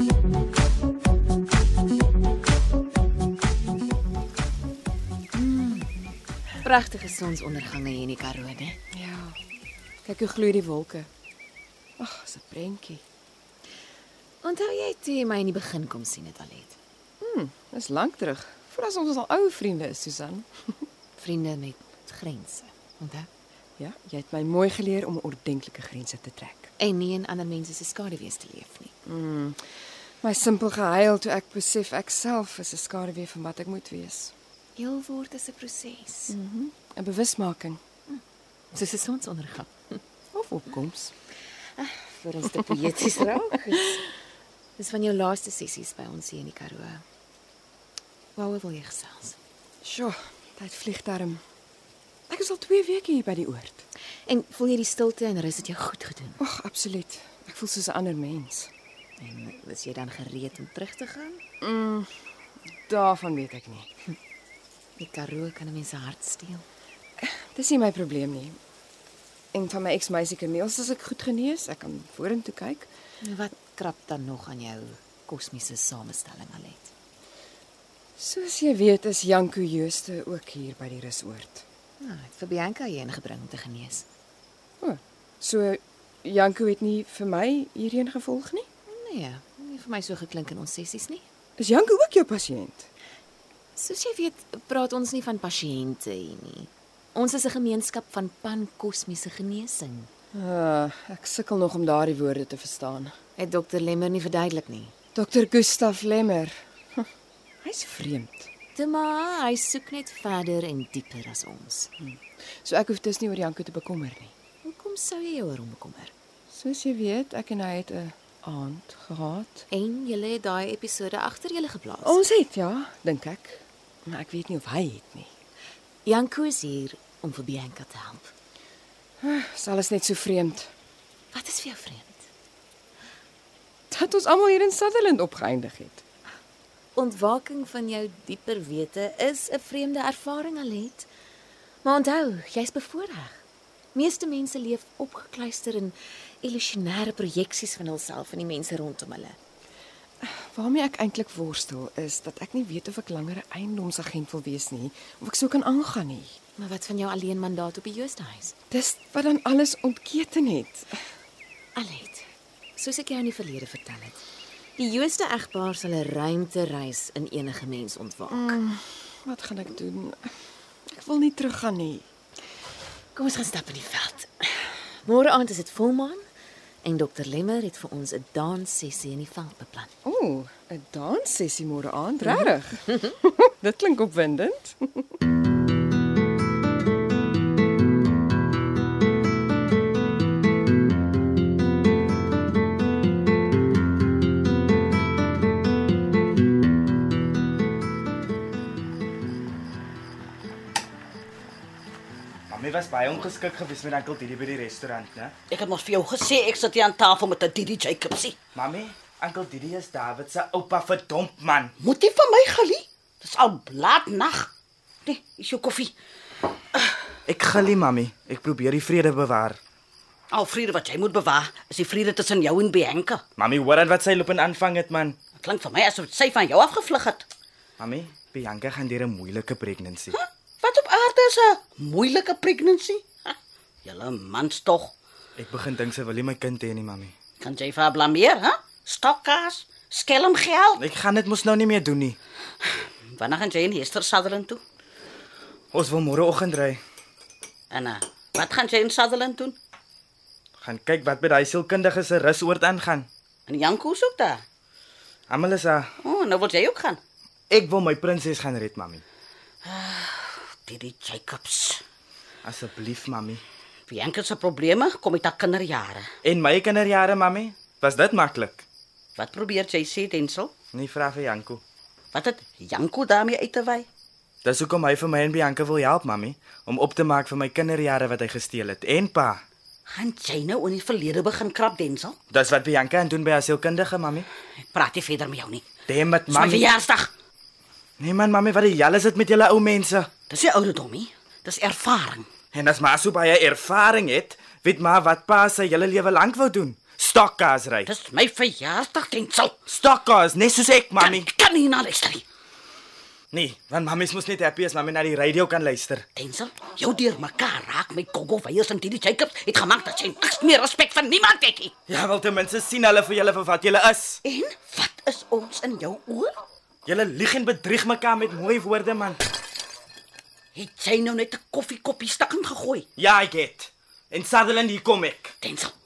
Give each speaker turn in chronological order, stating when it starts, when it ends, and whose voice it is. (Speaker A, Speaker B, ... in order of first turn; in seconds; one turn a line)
Speaker A: 5.3-5.9
Speaker B: 6.6-8.8
Speaker A: 8.9-9.4
Speaker A: 10.0-11.1
Speaker A: 12.0-13.0
Speaker B: 14.4-16.8
Speaker A: 17.2-20.7
Speaker B: 21.2-23.3
Speaker A: 23.8-26.7
Speaker B: 26.8-28.9
Speaker A: 29.0-29.6
Speaker A: 30.2-34.3
Speaker B: 34.8-36.4
Speaker A: 36.3-37.8
Speaker B: 38.1-39.7
Speaker A: 40.3-41.1
Speaker B: 41.8-44.1
Speaker B: 44.8-47.0
Speaker B: 48.4-49.4
Speaker A: 49.8-51.4
Speaker A: 52.3-53.8
Speaker B: 54.2-56.4
Speaker A: 56.4-58.7
Speaker B: 59.2-61.4
Speaker A: 61.6-62.1
Speaker A: 62.9-63.9
Speaker B: 65.0-66.6
Speaker A: 67.2-68.6
Speaker A: 69.5-72.9
Speaker B: 73.2-76.9
Speaker A: 78.2-81.6
Speaker B: 82.0-84.0
Speaker A: 84.8-88.7
Speaker B: 88.9-91.2
Speaker A: 91.6-92.9
Speaker B: 93.7-100.1
Speaker A: 100.3-103.1
Speaker B: 103.4-104.9
Speaker A: 105.1-107.1
Speaker A: 107.6-108.5
Speaker B: 108.7-111.9
Speaker A: 112.0-114.3
Speaker B: 114.6-116.1
Speaker A: 116.5-119.6
Speaker B: 119.7-122.2
Speaker A: 122.0-125.3
Speaker B: 126.0-128.3
Speaker A: 129.2-130.7
Speaker B: 131.3-132.2
Speaker A: 133.9-136.0
Speaker B: 136.9-141.1
Speaker B: 141.8-143.4
Speaker B: 143.9-149.4
Speaker A: 150.2-156.3
Speaker B: 156.6-158.5
Speaker A: 158.7-161.0
Speaker B: 161.7-164.2
Speaker B: 164.8-168.6
Speaker A: 168.3-170.3
Speaker A: 170.9-172.0
Speaker B: 173.1-176.2
Speaker B: 176.8-179.9
Speaker A: 180.0-185.1
Speaker C: 202.5-205.3
Speaker D: 205.5-208.3
Speaker C: 208.5-211.7
Speaker D: 211.8-214.5
Speaker D: 215.1-215.9
Speaker C: 217.3-219.6
Speaker D: 220.3-223.2
Speaker C: 223.4-225.1
Speaker D: 225.4-227.2
Speaker C: 227.8-230.1
Speaker D: 230.1-234.9
Speaker C: 235.4-237.1
Speaker D: 237.4-240.8
Speaker C: 240.8-242.2
Speaker D: 243.1-244.6
Speaker C: 245.7-246.8
Speaker D: 247.7-249.5
Speaker C: 250.6-253.1
Speaker D: 253.5-254.4
Speaker C: 255.3-255.9
Speaker D: 256.0-257.0
Speaker C: 257.5-259.0
Speaker D: 259.6-261.8
Speaker C: 262.4-263.4
Speaker D: 263.9-266.1
Speaker C: 266.2-268.6
Speaker D: 269.2-270.5
Speaker C: 270.7-271.6
Speaker D: 272.1-273.9
Speaker C: 274.4-279.4
Speaker D: 279.9-282.2
Speaker C: 282.3-284.3
Speaker D: 284.7-285.7
Speaker C: 285.9-286.7
Speaker D: 286.3-287.1
Speaker C: 288.0-290.1
Speaker D: 290.3-292.3
Speaker C: 292.5-297.9
Speaker D: 297.9-299.5
Speaker C: 299.7-301.3
Speaker D: 301.0-302.2
Speaker C: 303.3-306.0
Speaker D: 306.1-311.7
Speaker C: 311.9-314.2
Speaker D: 314.2-316.4
Speaker C: 316.9-319.2
Speaker D: 320.5-322.8
Speaker C: 323.0-325.3
Speaker D: 325.4-325.7